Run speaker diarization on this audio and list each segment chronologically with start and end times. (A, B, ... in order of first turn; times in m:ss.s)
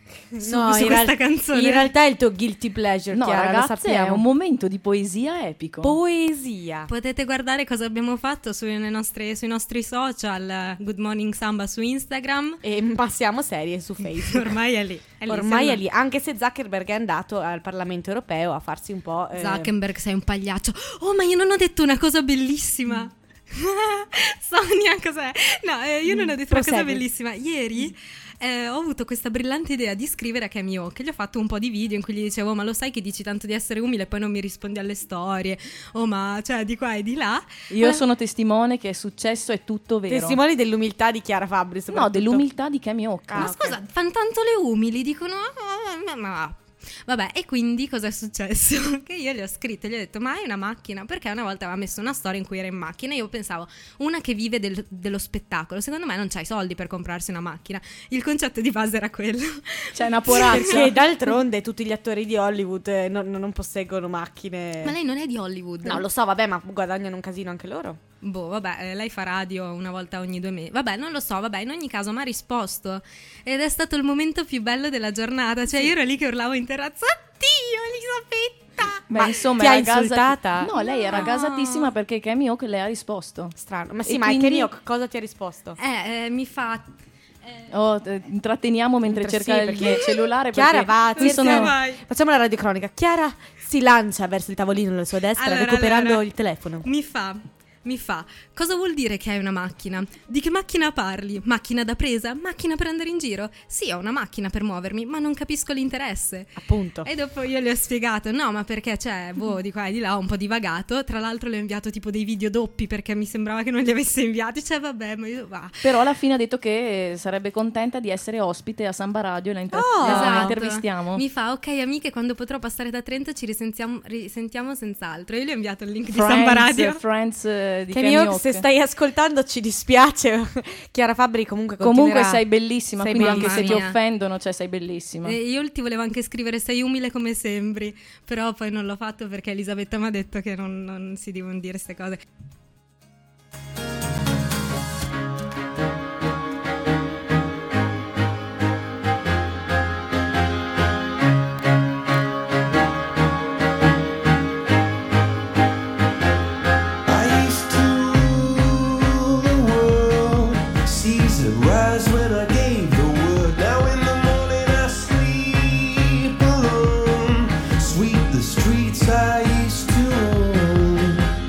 0:00.3-0:04.2 A
0:00.4-0:01.9 B
0:03.1-0:06.0 C
0:05.8-0:06.9 A
0:06.9-0:12.6 B
0:12.6-0:14.6 A
0:14.2-0:15.8 B
0:15.3-0:19.7 A
0:19.4-0:38.0 B
0:26.1-0:27.1 A
0:37.7-0:40.4 C
0:40.1-0:42.5 A
0:41.9-0:43.5 C
0:43.3-0:43.8 A
0:43.4-1:00.9 B
0:59.9-1:01.0 C
1:00.3-1:05.0 A
1:04.8-1:06.0 B
1:05.8-1:08.0 A
1:08.2-1:19.3 B
1:19.1-1:24.7 C
1:19.2-1:21.3 A
1:20.8-1:21.9 B
1:23.6-1:25.8 A
1:25.8-1:26.9 B
1:27.7-1:31.7 C
1:29.1-1:36.9 A
1:31.2-1:32.0 B
1:35.4-1:36.2 B
1:36.8-1:55.8 B
1:46.6-1:47.1 A
1:55.8-2:01.2 C
1:59.7-2:00.6 A
2:00.0-2:07.0 B
2:06.1-2:08.6 C
2:07.9-2:12.4 A
2:11.8-2:15.4 C
2:13.0-2:13.9 A
2:13.2-2:14.0 B
2:15.2-2:22.2 B
2:37.1-2:51.3 D